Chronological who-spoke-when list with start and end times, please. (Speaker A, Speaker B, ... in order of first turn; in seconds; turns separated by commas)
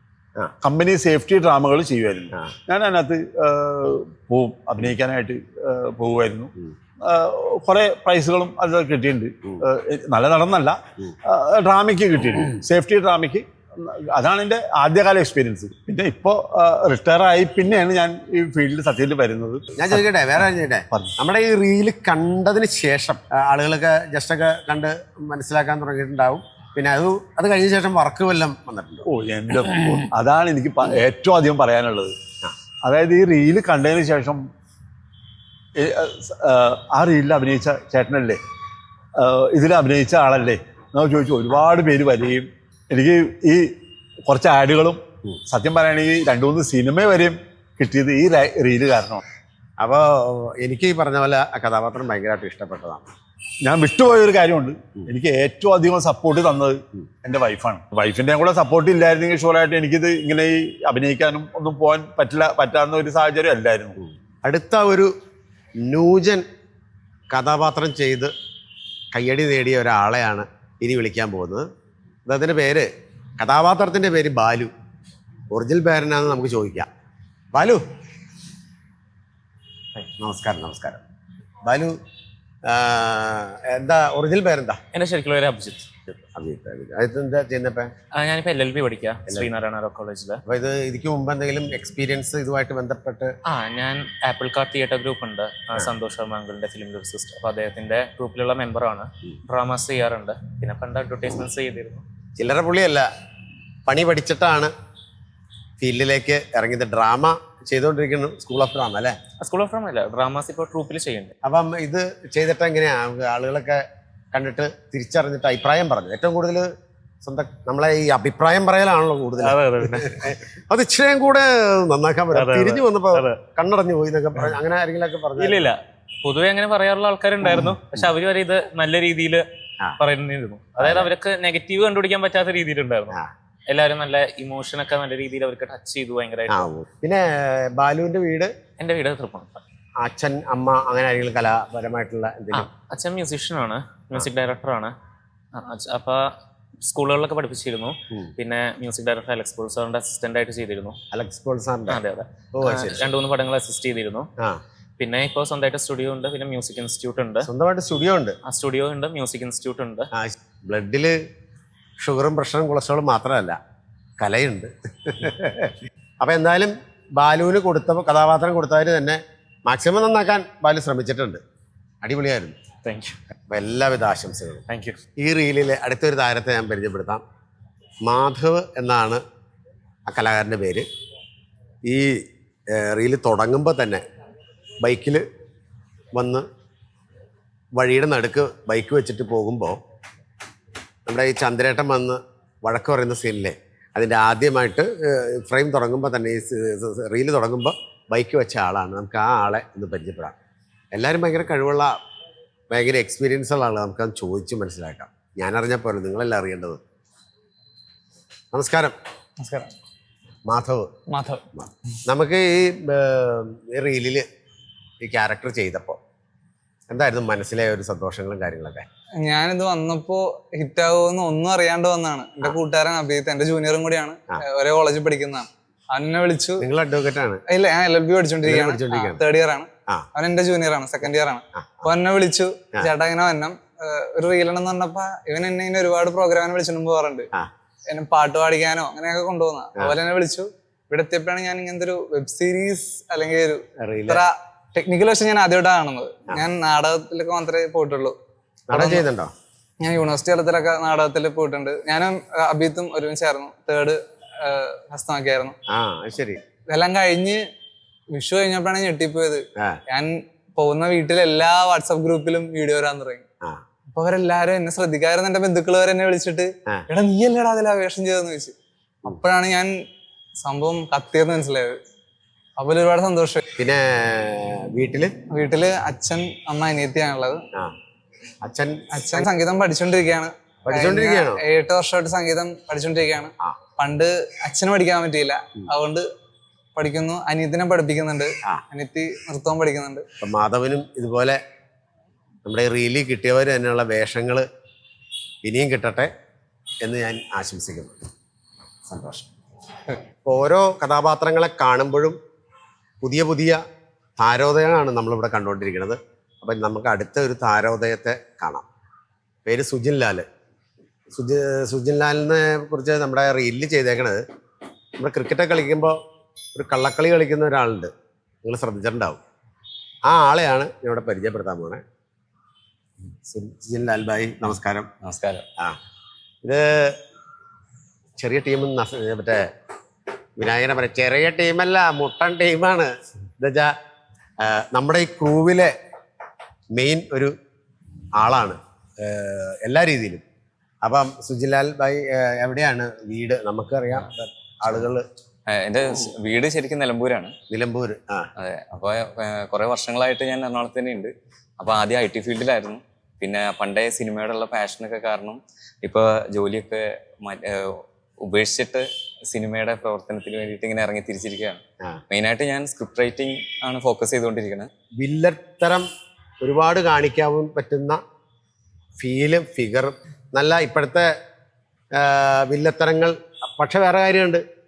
Speaker A: 0.6-6.5, Speaker A: 7.0-20.0, Speaker B: 19.8-29.1, Speaker A: 29.1-32.1, Speaker A: 32.8-34.4, Speaker A: 35.8-38.4, Speaker A: 39.2-43.7, Speaker A: 44.2-49.2, Speaker B: 49.8-53.1, Speaker A: 53.6-64.0, Speaker B: 64.0-65.1, Speaker B: 65.8-66.5, Speaker B: 67.3-68.3, Speaker B: 69.1-71.7, Speaker B: 72.2-72.9, Speaker B: 73.4-74.7, Speaker B: 75.5-76.9, Speaker B: 77.5-77.8, Speaker B: 80.2-81.0, Speaker B: 81.6-81.9, Speaker B: 82.7-84.8, Speaker C: 84.9-85.9, Speaker B: 86.3-87.9, Speaker C: 88.1-90.4, Speaker B: 90.5-93.3, Speaker C: 93.5-102.0, Speaker B: 102.4-103.1, Speaker B: 103.9-104.7, Speaker B: 105.8-109.2, Speaker C: 109.4-111.3, Speaker B: 111.4-116.7, Speaker B: 117.2-125.7, Speaker C: 119.4-120.2, Speaker C: 122.3-123.4, Speaker C: 125.4-129.4, Speaker C: 130.0-133.2, Speaker B: 130.8-131.1, Speaker C: 133.7-136.7, Speaker B: 136.5-138.5, Speaker C: 138.8-139.6, Speaker B: 140.0-142.7, Speaker C: 142.5-144.9, Speaker C: 145.5-151.0, Speaker B: 151.1-152.0, Speaker C: 151.9-154.3, Speaker B: 152.5-153.1, Speaker C: 155.0-157.5, Speaker B: 157.4-158.4, Speaker C: 158.4-160.1, Speaker B: 160.1-161.2, Speaker B: 162.0-163.6, Speaker B: 164.2-171.4, Speaker B: 172.0-172.6, Speaker C: 172.8-173.2, Speaker B: 173.5-174.6, Speaker C: 174.7-175.0, Speaker B: 175.2-177.2, Speaker B: 178.0-179.2, Speaker B: 180.1-180.9, Speaker B: 181.8-182.2, Speaker B: 182.7-184.0, Speaker B: 184.8-185.2, Speaker B: 186.1-186.4, Speaker B: 187.7-189.8, Speaker B: 191.1-200.3, Speaker B: 200.9-201.9, Speaker B: 202.7-206.8, Speaker B: 208.5-208.9, Speaker D: 209.4-209.7, Speaker B: 210.5-210.9, Speaker D: 211.1-211.4, Speaker B: 211.5-214.2, Speaker B: 215.0-216.0, Speaker B: 216.9-218.9, Speaker D: 219.2-226.6, Speaker B: 226.6-227.4, Speaker D: 227.5-237.3, Speaker B: 228.4-229.2, Speaker B: 231.6-231.9, Speaker D: 237.9-248.2, Speaker B: 243.8-244.2, Speaker B: 248.7-249.3, Speaker D: 248.7-249.1, Speaker D: 249.8-255.5, Speaker B: 255.7-256.4, Speaker D: 256.7-257.4, Speaker D: 258.1-263.2, Speaker D: 263.9-268.5, Speaker D: 269.0-269.7, Speaker D: 270.4-271.8, Speaker D: 272.6-273.4, Speaker B: 273.6-275.1, Speaker D: 275.3-277.4, Speaker B: 278.4-279.3, Speaker D: 278.9-286.1, Speaker B: 280.6-281.4, Speaker D: 286.8-290.0, Speaker B: 290.2-291.4, Speaker B: 292.4-294.4, Speaker B: 295.4-296.1, Speaker B: 296.8-298.0, Speaker B: 298.9-299.3, Speaker B: 300.2-302.2, Speaker B: 303.0-303.6, Speaker B: 304.2-308.6, Speaker B: 309.4-310.2, Speaker B: 311.1-314.2, Speaker B: 315.0-316.0, Speaker B: 316.5-317.9, Speaker B: 318.4-319.2, Speaker B: 320.1-321.8, Speaker B: 323.2-324.9, Speaker E: 325.0-325.4, Speaker B: 326.4-327.0, Speaker B: 328.2-329.5, Speaker B: 330.4-333.7, Speaker B: 334.4-335.7, Speaker B: 336.7-337.3, Speaker B: 338.2-340.2, Speaker B: 340.8-345.1, Speaker E: 345.5-347.3, Speaker B: 347.5-348.3, Speaker E: 348.4-364.7, Speaker B: 365.0-365.8, Speaker B: 366.4-368.0, Speaker B: 369.0-371.1, Speaker B: 371.9-374.4